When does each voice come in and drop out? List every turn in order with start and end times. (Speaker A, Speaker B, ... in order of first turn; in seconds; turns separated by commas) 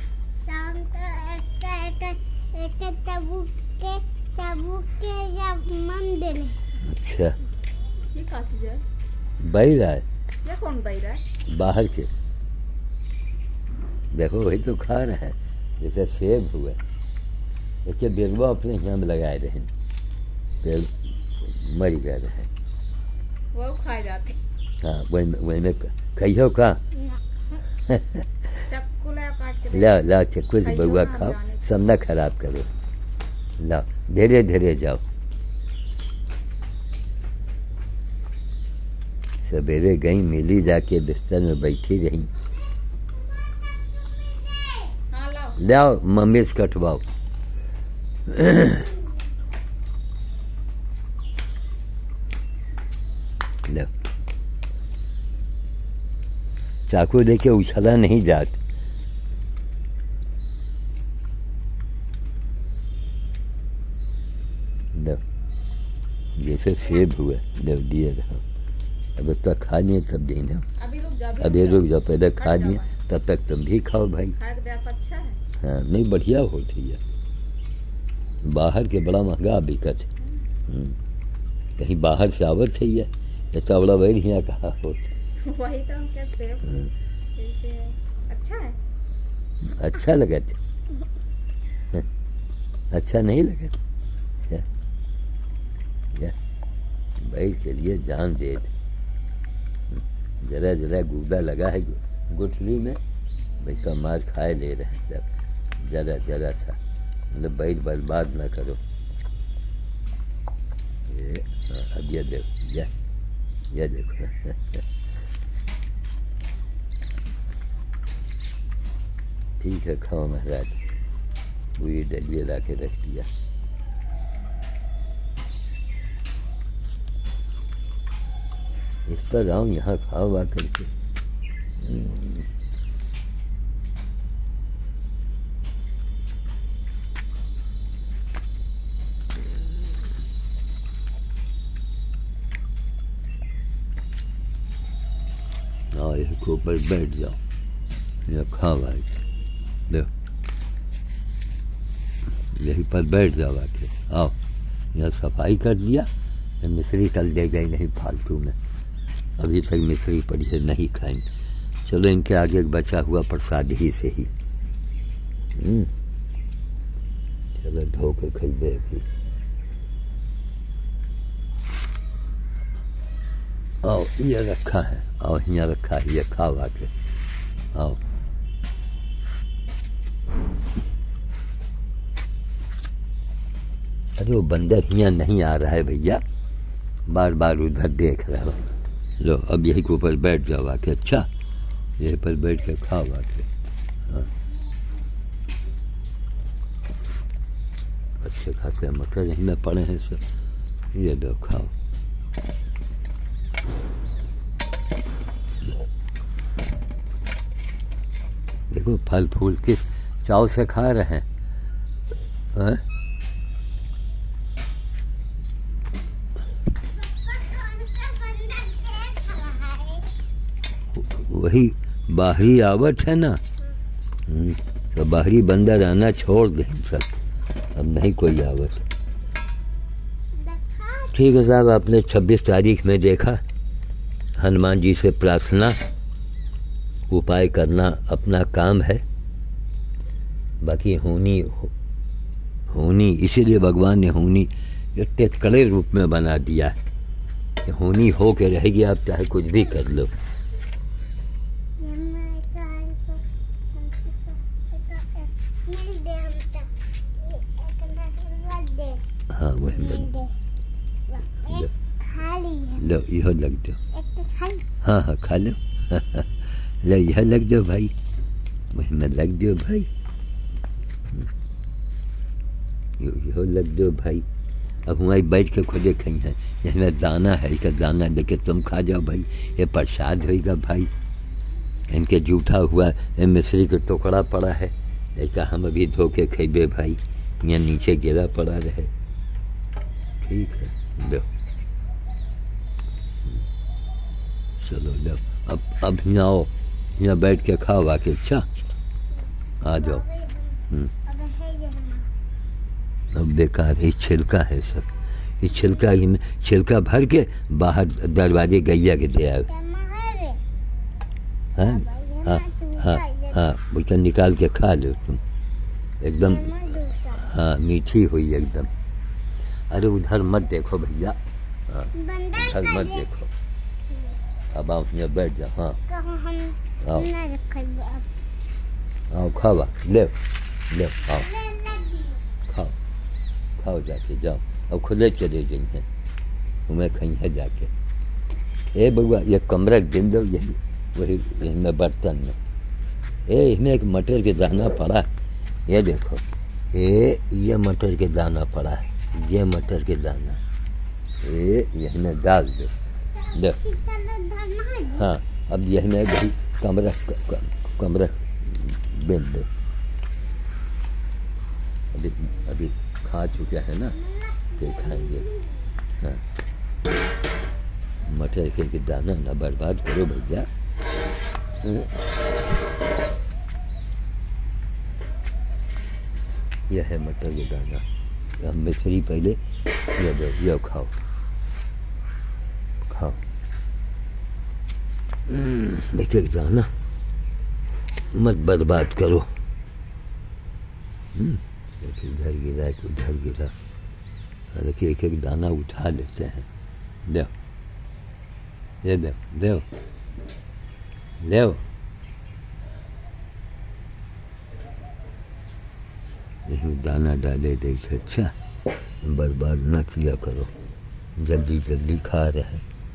Speaker A: 0.4-6.6, Speaker B: 6.8-7.3, Speaker C: 8.1-8.8, Speaker B: 9.4-10.1, Speaker C: 10.4-11.2, Speaker B: 11.4-12.1, Speaker B: 14.1-16.8, Speaker B: 17.8-19.7, Speaker B: 20.6-22.5, Speaker C: 23.5-24.4, Speaker B: 24.8-26.8, Speaker A: 26.9-27.6, Speaker B: 27.9-28.2, Speaker C: 28.6-30.0, Speaker B: 29.7-32.7, Speaker C: 30.6-31.6, Speaker B: 33.6-35.0, Speaker B: 39.4-42.3, Speaker A: 44.2-44.9, Speaker C: 45.1-45.6, Speaker B: 45.6-47.0, Speaker B: 48.3-48.9, Speaker B: 53.6-53.9, Speaker B: 56.9-58.6, Speaker B: 64.9-65.2, Speaker B: 66.3-68.4, Speaker B: 69.2-70.7, Speaker C: 70.8-72.9, Speaker B: 71.4-74.3, Speaker C: 74.3-75.4, Speaker B: 75.6-77.0, Speaker B: 78.4-80.1, Speaker B: 80.7-81.0, Speaker B: 81.8-85.1, Speaker C: 85.4-86.8, Speaker C: 87.3-88.8, Speaker B: 89.6-90.6, Speaker B: 92.9-93.8, Speaker B: 97.2-98.7, Speaker B: 100.4-103.0, Speaker B: 103.6-105.3, Speaker B: 105.8-106.8, Speaker B: 107.3-108.8, Speaker B: 111.1-112.9, Speaker B: 113.7-114.8, Speaker B: 119.6-120.8, Speaker B: 121.8-123.3, Speaker B: 129.1-130.9, Speaker B: 131.8-132.4, Speaker B: 145.9-147.4, Speaker B: 148.2-149.2, Speaker B: 152.5-154.3, Speaker B: 154.9-156.1, Speaker B: 156.6-158.6, Speaker B: 159.4-161.3, Speaker B: 161.8-164.3, Speaker B: 165.5-165.9, Speaker B: 167.6-169.1, Speaker B: 173.8-176.9, Speaker B: 177.7-178.0, Speaker B: 184.2-186.2, Speaker B: 187.1-191.3, Speaker B: 192.0-193.5, Speaker B: 198.2-200.2, Speaker B: 200.9-201.7, Speaker B: 208.7-211.2, Speaker B: 212.5-212.8, Speaker A: 217.0-220.1, Speaker B: 220.9-223.4, Speaker B: 224.3-227.2, Speaker B: 227.7-228.8, Speaker A: 230.3-231.2, Speaker B: 231.1-233.4, Speaker B: 234.4-235.8, Speaker B: 237.1-239.0, Speaker B: 240.6-241.7, Speaker B: 242.7-246.8, Speaker B: 247.6-250.1, Speaker A: 251.8-259.0, Speaker B: 259.3-260.1, Speaker A: 259.6-260.4, Speaker A: 261.1-262.9, Speaker B: 261.4-261.7, Speaker B: 262.8-263.8, Speaker A: 263.9-264.6, Speaker B: 264.8-267.9, Speaker B: 268.7-269.9, Speaker B: 273.0-274.2, Speaker B: 274.9-280.9, Speaker B: 281.9-288.9, Speaker B: 290.2-291.3, Speaker B: 294.6-298.5, Speaker B: 299.6-300.1, Speaker A: 299.7-302.1, Speaker B: 303.1-309.5, Speaker A: 309.5-310.4, Speaker B: 311.6-315.2, Speaker A: 311.6-313.4, Speaker B: 316.0-318.7, Speaker A: 316.2-317.2, Speaker B: 319.7-323.3, Speaker A: 321.9-323.0, Speaker A: 323.9-324.2, Speaker B: 324.5-325.8, Speaker A: 325.9-328.1, Speaker B: 326.8-327.1, Speaker B: 329.1-330.2, Speaker B: 330.7-331.3, Speaker A: 331.1-332.2, Speaker B: 332.5-332.8, Speaker B: 333.6-335.9, Speaker B: 336.7-337.7, Speaker B: 338.7-342.4, Speaker B: 343.3-345.1, Speaker B: 345.7-350.4, Speaker B: 351.2-352.7, Speaker A: 353.1-355.1, Speaker B: 353.3-353.6, Speaker B: 354.9-359.5, Speaker B: 361.9-364.0, Speaker A: 364.0-365.7, Speaker B: 364.6-365.3, Speaker B: 368.0-370.5, Speaker B: 371.6-371.9, Speaker B: 376.7-377.8, Speaker B: 378.4-381.0, Speaker B: 382.8-383.2, Speaker B: 385.3-386.7, Speaker B: 388.1-389.3, Speaker B: 391.1-393.5, Speaker B: 394.5-396.5, Speaker B: 397.1-397.3, Speaker B: 398.8-399.7, Speaker B: 401.2-401.6, Speaker B: 406.4-408.3, Speaker B: 409.0-410.5, Speaker B: 411.2-412.6